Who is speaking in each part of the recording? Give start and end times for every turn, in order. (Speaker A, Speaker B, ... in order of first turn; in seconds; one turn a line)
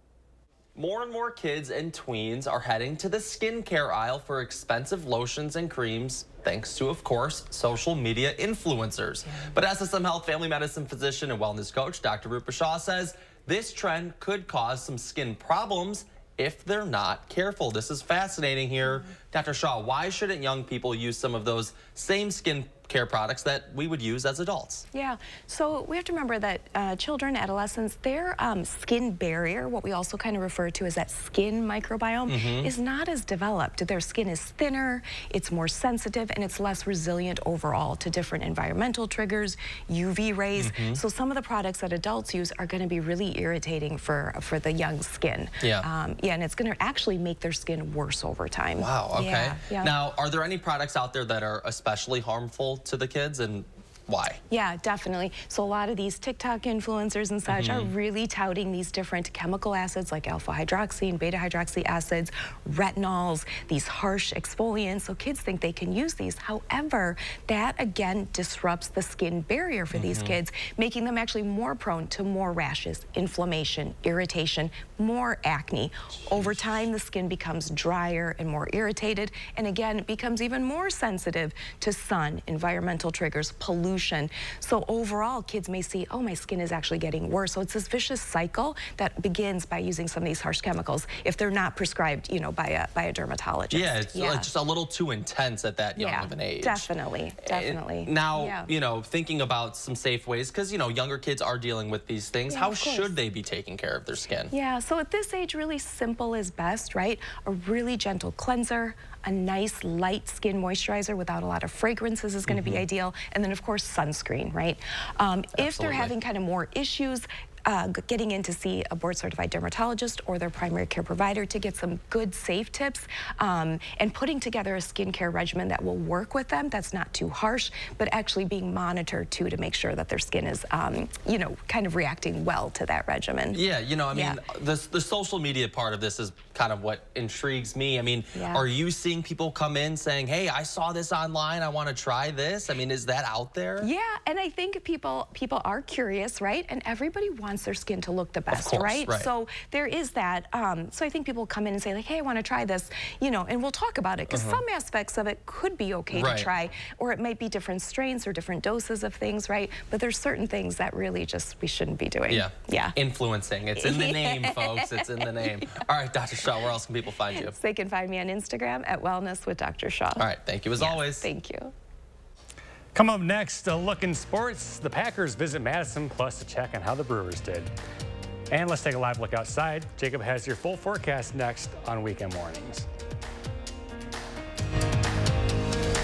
Speaker A: 0.8-24.9
Speaker B: 24.9-50.0
Speaker A: 32.3-32.7
Speaker A: 40.6-41.0
Speaker A: 45.6-45.9
Speaker A: 48.8-54.4
Speaker B: 54.5-94.5
Speaker A: 57.5-57.9
Speaker A: 69.9-70.3
Speaker A: 76.3-76.7
Speaker A: 93.7-96.9
Speaker B: 96.0-98.7
Speaker A: 97.4-104.5
Speaker B: 102.5-103.2
Speaker B: 104.5-134.4
Speaker A: 112.5-112.8
Speaker A: 115.6-116.1
Speaker A: 133.5-143.9
Speaker B: 138.3-138.7
Speaker B: 143.8-162.9
Speaker A: 148.5-149.3
Speaker A: 154.3-154.6
Speaker A: 156.1-156.5
Speaker A: 162.3-167.5
Speaker B: 163.8-165.5
Speaker B: 167.4-171.7
Speaker A: 170.2-171.3
Speaker C: 172.9-177.7
Speaker C: 178.5-182.9